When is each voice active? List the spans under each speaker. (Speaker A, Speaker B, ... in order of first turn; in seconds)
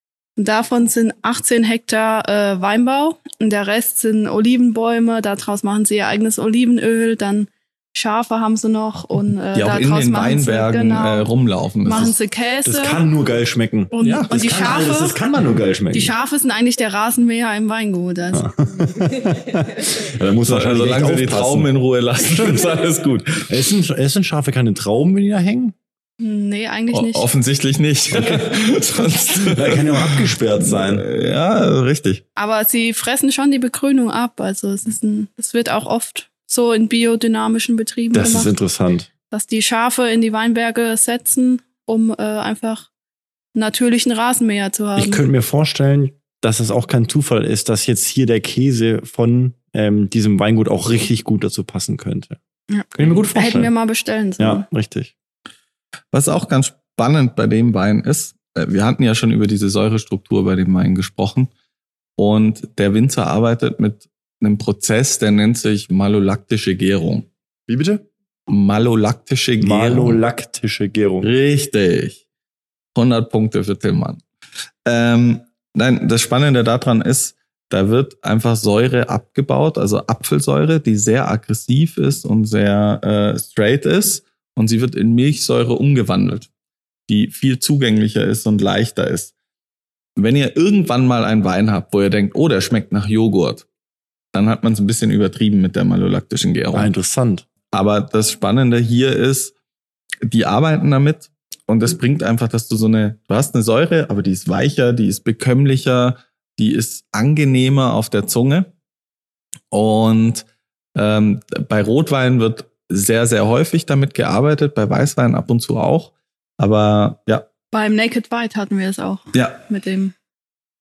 Speaker A: 0.4-11.3, 11.8-13.0, 13.9-15.2, 15.9-18.4, 26.2-27.3, 32.4-38.5, 39.3-42.9, 43.5-45.2, 52.7-54.6, 117.7-120.1
Speaker B: 9.5-12.1, 14.0-14.3, 20.5-23.5, 26.9-32.2, 56.1-61.5, 62.2-67.3, 68.5-70.2, 71.2-72.2, 72.9-74.2, 74.8-86.5, 87.1-89.3, 90.2-93.7, 94.3-96.9, 97.7-99.5, 100.2-108.7, 109.7-117.4, 119.3-119.6
Speaker C: 12.6-16.1, 18.3-22.6, 23.5-25.7, 28.1-28.5, 29.4-31.1, 38.1-39.1, 45.0-52.4, 52.9-53.7, 54.4-55.1, 67.7-68.0, 69.6-71.3, 96.7-97.4